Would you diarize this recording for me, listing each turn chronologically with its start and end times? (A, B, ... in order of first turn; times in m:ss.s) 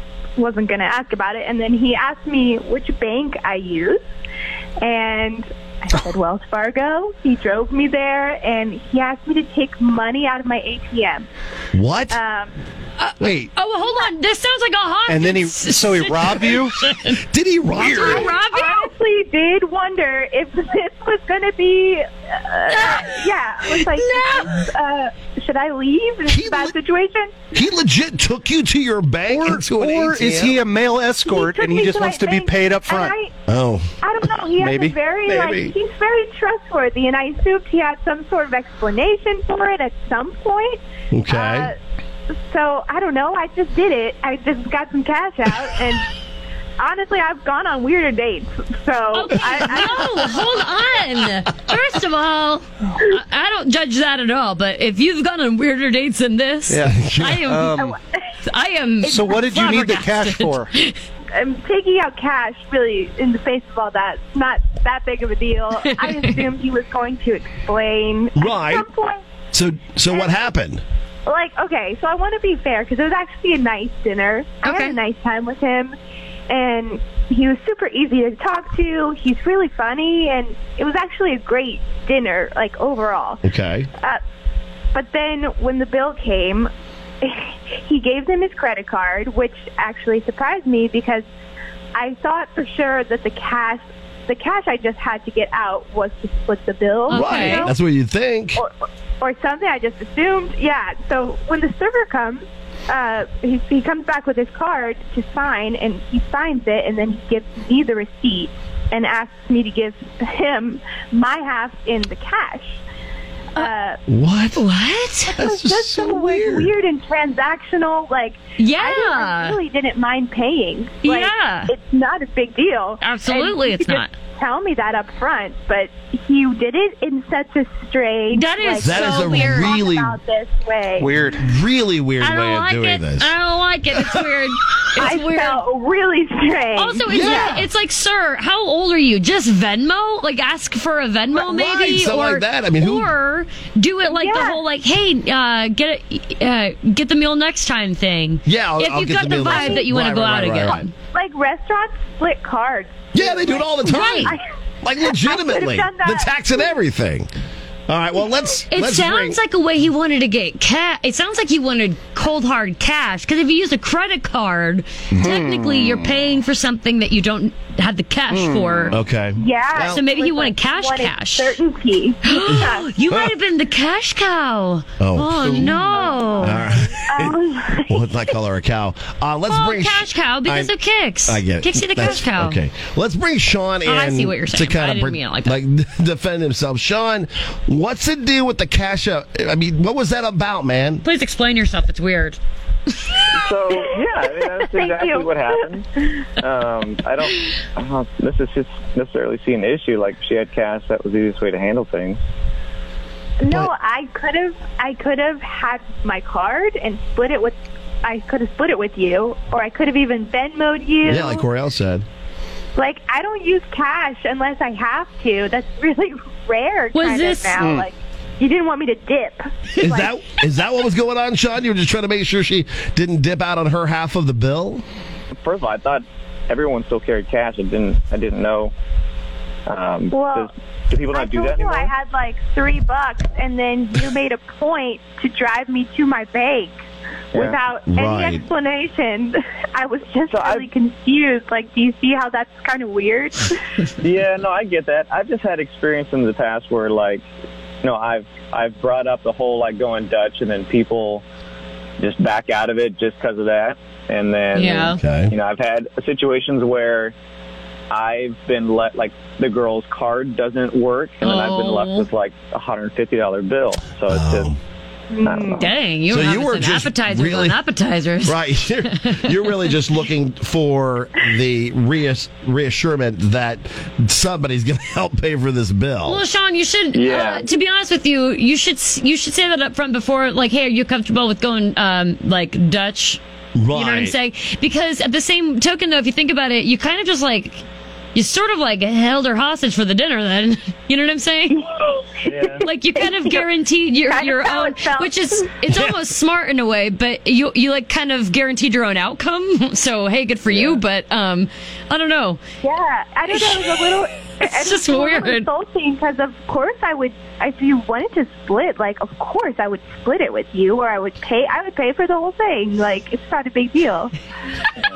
0:00.4-0:04.0 A
0:04.8-0:11.2 A
0:11.7-0:12.2 B
0:12.1-0:12.5 A
0:13.0-0:17.2 C
0:13.2-0:13.5 B
0:15.1-0:16.7 D
0:17.3-0:18.3 B
0:17.8-0:18.9 C
0:17.8-0:18.1 D
0:18.0-0:27.4 A
0:22.7-0:23.2 C
0:24.0-0:24.6 C
0:26.3-0:26.7 B
0:27.5-0:30.6 B
0:29.3-0:33.2 D
0:31.2-0:33.3 A
0:33.5-0:34.1 B
0:34.0-0:41.8 A
0:34.6-0:35.0 D
0:35.2-0:35.8 B
0:41.1-0:41.7 B
0:42.5-0:46.0 A
0:46.8-0:50.3 A
0:49.1-0:57.9 C
0:56.7-0:58.0 D
0:56.8-0:57.7 B
0:58.4-1:01.0 C
0:59.0-1:00.7 D
1:01.3-1:09.2 A
1:06.0-1:06.4 C
1:08.4-1:08.9 B
1:09.5-1:10.8 B
1:11.2-1:15.9 A
1:14.6-1:15.0 C
1:16.5-1:23.4 A
1:23.4-1:23.9 B
1:24.9-1:26.7 A
1:27.2-1:31.2 A
1:31.9-1:37.7 A
1:37.1-1:37.7 C
1:37.1-1:38.6 B
1:38.6-1:52.8 A
1:53.6-1:54.0 A
1:54.1-1:54.6 B
1:54.6-1:55.4 C
1:55.3-2:11.1 A
1:55.3-1:56.7 B
1:58.6-1:59.6 C
2:01.0-2:01.7 C
2:03.0-2:04.1 C
2:08.3-2:09.7 C
2:08.8-2:10.2 B
2:11.0-2:11.4 D
2:11.4-2:13.3 B
2:12.2-2:15.6 C
2:15.0-2:17.6 A
2:16.8-2:30.9 C
2:17.1-2:17.6 B
2:21.3-2:23.1 B
2:24.1-2:24.6 A
2:28.4-2:30.9 B
2:29.4-2:29.8 A
2:31.1-2:34.4 A
2:33.1-2:37.3 B
2:33.8-2:34.4 C
2:35.0-2:36.8 A
2:37.9-2:39.4 B
2:38.7-2:49.0 C
2:48.3-2:48.9 D
2:48.9-2:50.0 B
2:49.4-2:52.9 A
2:49.8-2:51.6 C
2:52.2-2:56.7 C
2:52.5-2:53.3 B
2:55.0-2:55.7 B
2:55.4-2:55.8 D
2:55.7-2:58.1 A
2:56.4-3:11.0 B
2:59.5-3:02.6 C
3:03.8-3:05.6 C
3:11.0-3:12.4 C
3:13.3-3:22.2 E
3:13.7-3:16.3 A
3:23.4-3:31.4 A
3:31.0-3:32.0 B
3:32.8-3:40.1 A
3:36.9-3:37.6 C
3:37.6-3:37.9 D
3:39.7-3:44.8 B
3:45.4-3:48.7 E
3:49.7-3:51.9 E
3:50.1-3:50.5 A
3:51.1-3:56.7 A
3:57.3-4:03.6 A
3:57.9-3:58.4 B
4:00.3-4:00.7 E
4:04.0-4:07.2 E
4:07.8-4:11.2 E
4:12.0-4:17.1 E
4:14.5-4:15.0 C
4:15.0-4:15.3 B
4:17.9-4:24.5 E
4:21.2-4:22.1 C
4:24.1-4:24.6 B
4:25.1-4:25.7 A
4:25.2-4:25.7 E
4:25.5-4:29.7 C
4:26.1-4:27.6 B
4:28.2-4:36.2 B
4:36.0-4:43.2 C
4:36.9-4:37.4 E
4:43.5-4:44.2 B
4:43.7-4:47.6 C
4:48.1-4:51.6 C
4:51.5-4:53.4 A
4:52.2-4:52.7 E
4:52.6-5:02.4 C
4:54.1-4:55.5 A
4:55.7-4:56.0 B
5:00.5-5:00.8 E
5:02.6-5:14.1 A
5:03.3-5:03.6 C
5:04.4-5:05.5 C